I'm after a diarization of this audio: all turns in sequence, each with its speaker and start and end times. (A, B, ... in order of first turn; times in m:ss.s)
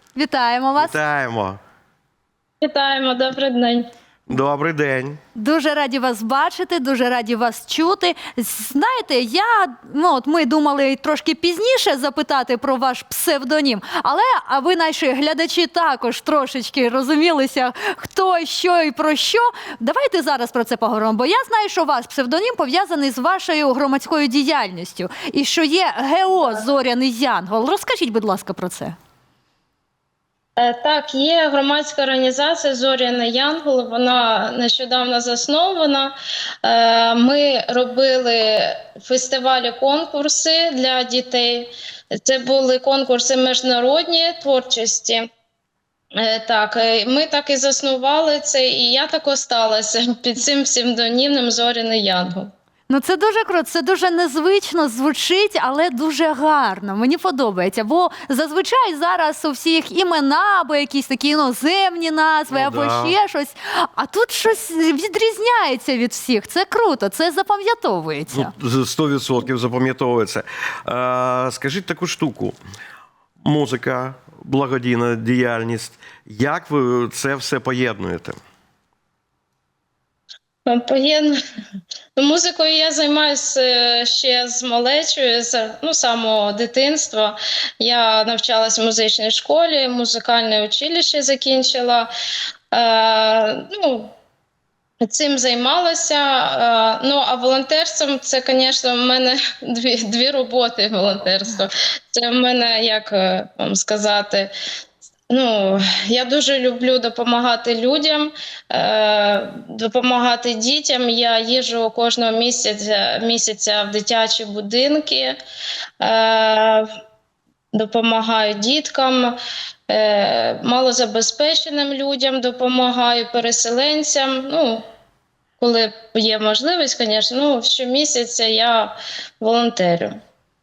0:00.2-0:01.0 A
0:00.8-0:01.6 B
0:02.6-0:03.9 C
0:04.3-0:05.2 B
0:05.4-0:29.0 A
0:30.6-0:45.3 C
0:46.2-0:52.5 C
0:52.9-1:08.5 A
1:02.5-1:03.2 B
1:08.3-1:12.6 B
1:13.4-1:18.4 B
1:20.7-1:21.4 C
1:22.2-1:32.1 C
1:32.7-1:34.1 C
1:35.0-1:44.5 C
1:45.3-1:55.4 C
1:56.0-1:56.9 C
1:57.7-1:59.4 C
1:59.9-2:04.8 C
2:05.6-2:10.2 C